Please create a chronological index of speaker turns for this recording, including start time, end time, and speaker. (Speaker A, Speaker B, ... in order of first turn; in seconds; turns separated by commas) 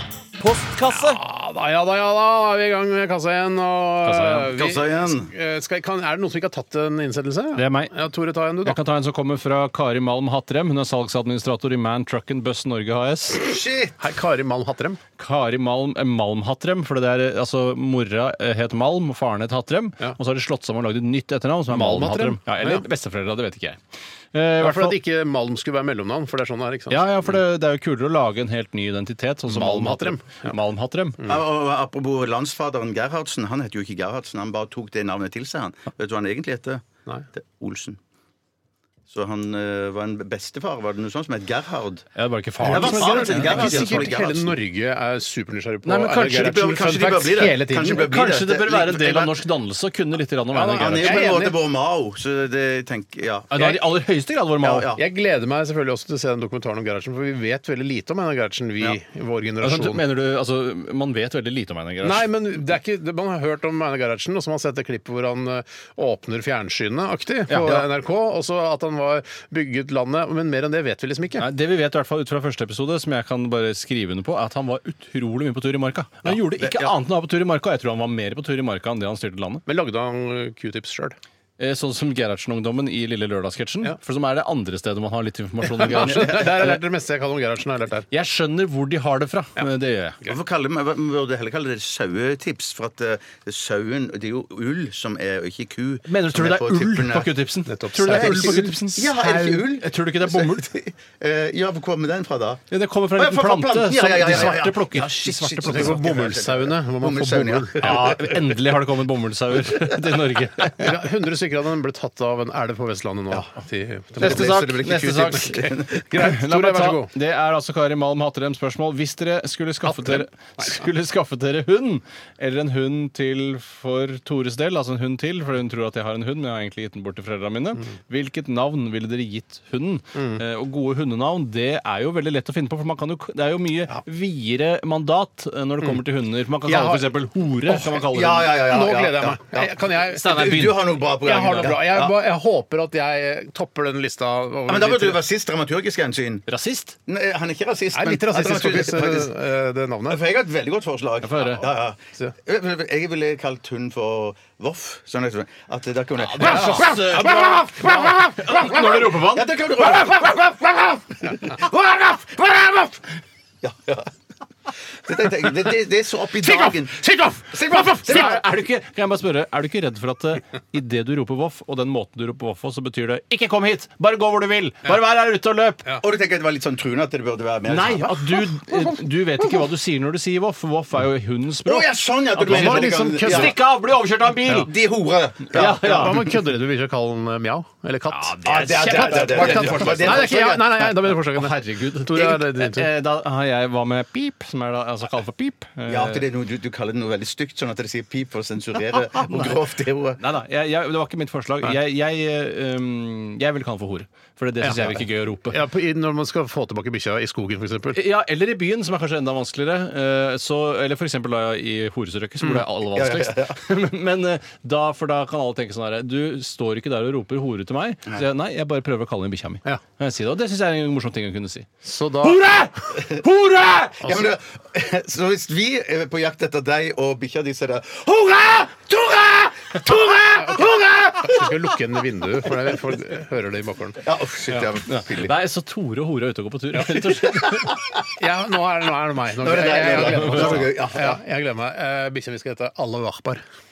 Speaker A: 0.4-1.2, Speaker B: 0.9-8.8, Speaker A: 4.0-4.5, Speaker C: 4.4-5.3, Speaker A: 7.5-7.9, Speaker A: 8.6-13.4, Speaker C: 13.4-14.0, Speaker B: 14.0-15.0, Speaker A: 15.2-23.8, Speaker B: 21.7-22.8, Speaker A: 24.3-25.0, Speaker B: 24.6-27.1, Speaker A: 26.9-31.2, Speaker B: 29.5-30.5, Speaker C: 31.2-36.8, Speaker C: 37.3-38.0, Speaker C: 39.1-42.1, Speaker A: 42.1-44.1, Speaker B: 42.6-48.1, Speaker C: 42.6-44.5, Speaker A: 45.8-46.7, Speaker C: 46.3-49.4, Speaker A: 47.8-51.3, Speaker B: 50.5-51.6, Speaker C: 50.8-53.8, Speaker A: 53.5-54.9, Speaker C: 54.6-55.0, Speaker B: 54.9-60.0, Speaker A: 59.6-62.3, Speaker B: 62.0-71.5, Speaker A: 67.5-67.8, Speaker A: 71.4-79.6, Speaker C: 76.6-76.9, Speaker B: 79.7-81.2, Speaker A: 81.6-86.8, Speaker B: 85.6-88.1, Speaker A: 88.1-90.2, Speaker C: 90.2-97.3, Speaker A: 96.1-100.7, Speaker B: 97.7-98.7, Speaker C: 98.0-102.6, Speaker A: 102.7-106.0, Speaker C: 103.2-108.3, Speaker B: 105.6-108.2, Speaker A: 107.8-110.9, Speaker B: 110.8-117.1, Speaker C: 114.2-116.0, Speaker A: 114.2-138.6, Speaker B: 119.8-120.8, Speaker B: 130.2-130.4, Speaker B: 136.7-137.1, Speaker C: 137.9-142.2, Speaker B: 138.5-145.2, Speaker A: 140.1-140.8, Speaker C: 144.7-146.5, Speaker A: 146.5-146.9, Speaker C: 147.1-149.3, Speaker B: 147.9-150.2, Speaker C: 150.1-163.0, Speaker A: 151.2-151.6, Speaker A: 156.2-159.6, Speaker B: 156.4-157.9, Speaker C: 163.6-164.1, Speaker C: 165.0-168.4, Speaker B: 166.4-168.2, Speaker A: 168.0-175.9, Speaker C: 176.0-178.5, Speaker A: 177.7-184.7, Speaker C: 181.6-183.6, Speaker B: 182.4-183.6, Speaker C: 184.4-186.3, Speaker A: 185.5-186.2, Speaker B: 185.6-192.9, Speaker A: 188.1-196.2, Speaker C: 188.4-190.7, Speaker C: 195.9-200.2, Speaker A: 199.2-199.5, Speaker A: 200.2-205.6, Speaker B: 204.6-208.0, Speaker A: 207.9-221.7, Speaker C: 212.9-213.6, Speaker B: 221.8-222.4, Speaker A: 222.2-224.0, Speaker C: 224.0-231.5, Speaker B: 224.0-224.3, Speaker B: 230.3-234.0, Speaker C: 234.0-235.3, Speaker A: 234.8-237.7, Speaker C: 237.2-238.0, Speaker B: 238.2-243.4, Speaker C: 239.4-241.2, Speaker A: 239.9-240.7